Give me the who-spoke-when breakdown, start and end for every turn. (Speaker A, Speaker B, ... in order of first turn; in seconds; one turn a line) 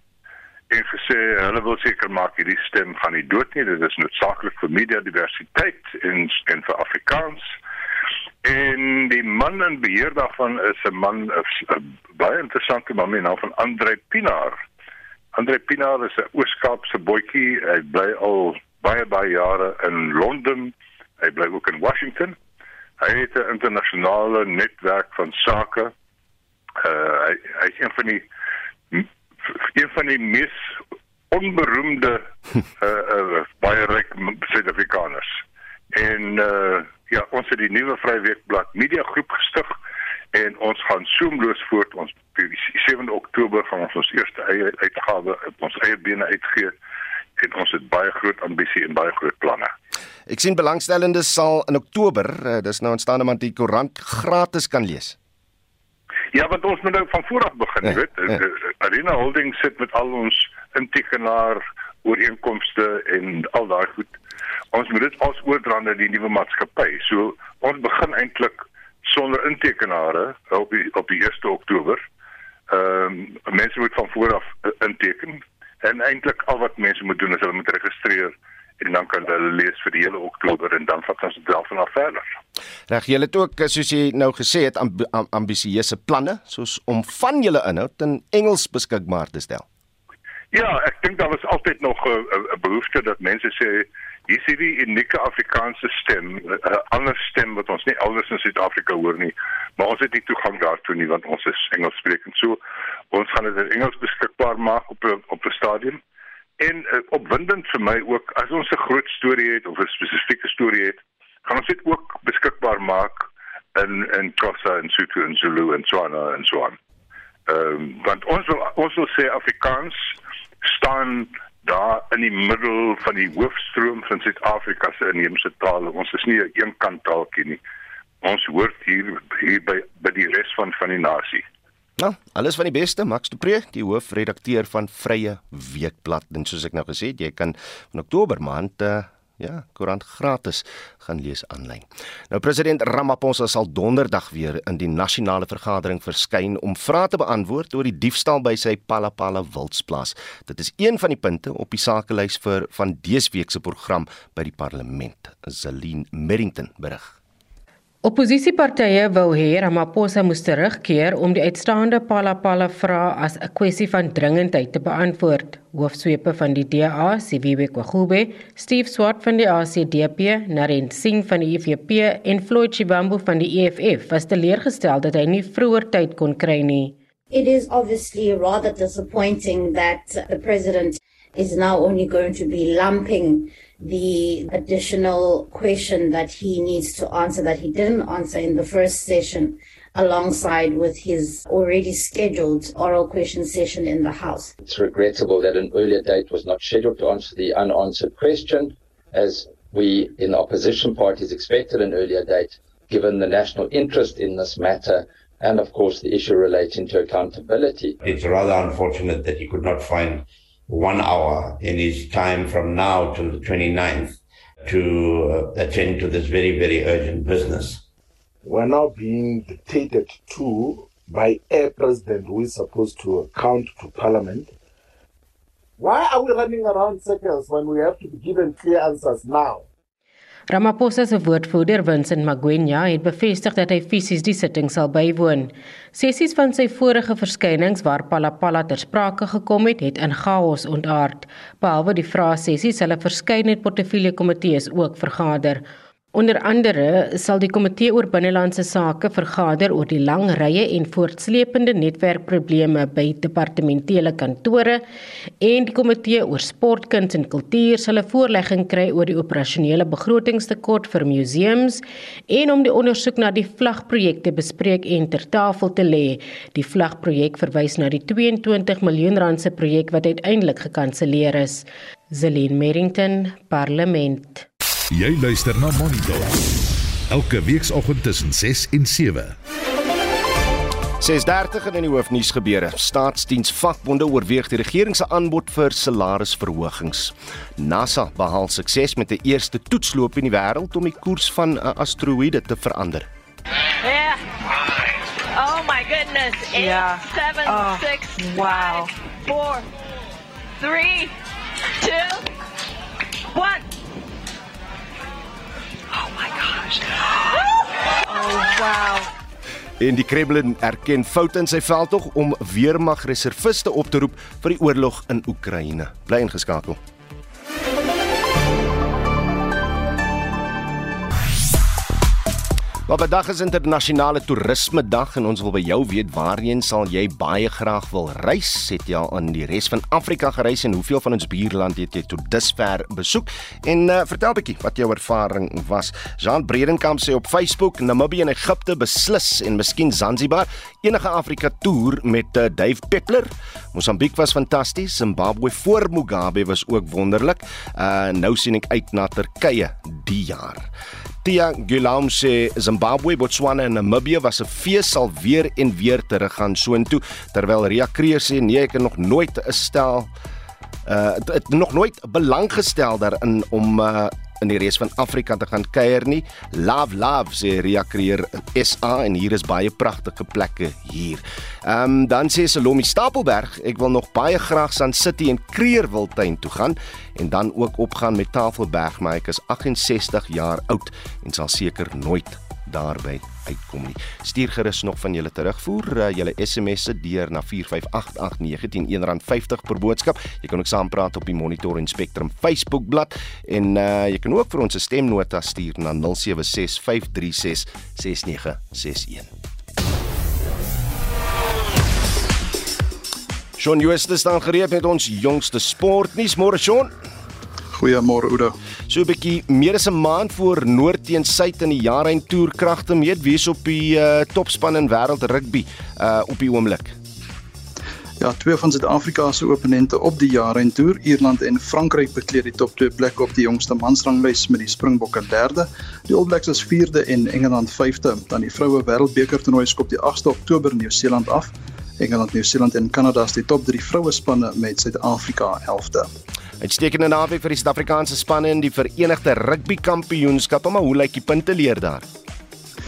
Speaker A: 0.7-7.5
Speaker A: 8.4-14.6
Speaker A: 15.3-22.4
Speaker A: 23.0-25.9
Speaker A: 26.8-28.2
Speaker A: 29.8-30.6
Speaker A: 31.3-32.2
Speaker A: 32.8-35.4
Speaker A: 35.9-39.8
Speaker A: 40.3-46.8
Speaker A: 47.4-49.7
Speaker B: 50.3-55.2
Speaker A: 56.3-64.2
Speaker A: 64.7-72.0
Speaker A: 72.7-82.2
Speaker B: 82.9-89.7
Speaker A: 90.5-102.6
Speaker A: 103.1-106.0
Speaker A: 106.6-116.8
Speaker A: 117.5-120.1
Speaker A: 120.7-127.6
Speaker A: 128.2-131.4
Speaker B: 132.0-157.2
Speaker C: 158.0-176.9
Speaker D: 177.3-194.6
Speaker E: 194.6-208.0
Speaker F: 208.0-217.8
Speaker G: 218.4-224.5
Speaker G: 225.8-229.7
Speaker C: 230.5-245.6
Speaker C: 246.1-254.8
Speaker C: 255.4-274.5
Speaker H: 274.9-276.4
Speaker H: 277.1-279.4
Speaker B: 281.0-293.1
Speaker I: 293.8-294.2
Speaker I: 295.3-299.6
Speaker I: 300.6-301.1
Speaker I: 301.8-302.2
Speaker I: 303.3-303.7
Speaker I: 305.9-307.4
Speaker I: 308.1-309.1
Speaker B: 309.8-316.8
Speaker B: 322.9-350.7
Speaker B: 351.2-360.1
Speaker B: 360.9-399.3
Speaker B: 403.6-406.9
Speaker J: 407.8-408.6
Speaker B: 408.9-417.0
Speaker J: 418.2-436.1
Speaker B: 436.6-442.1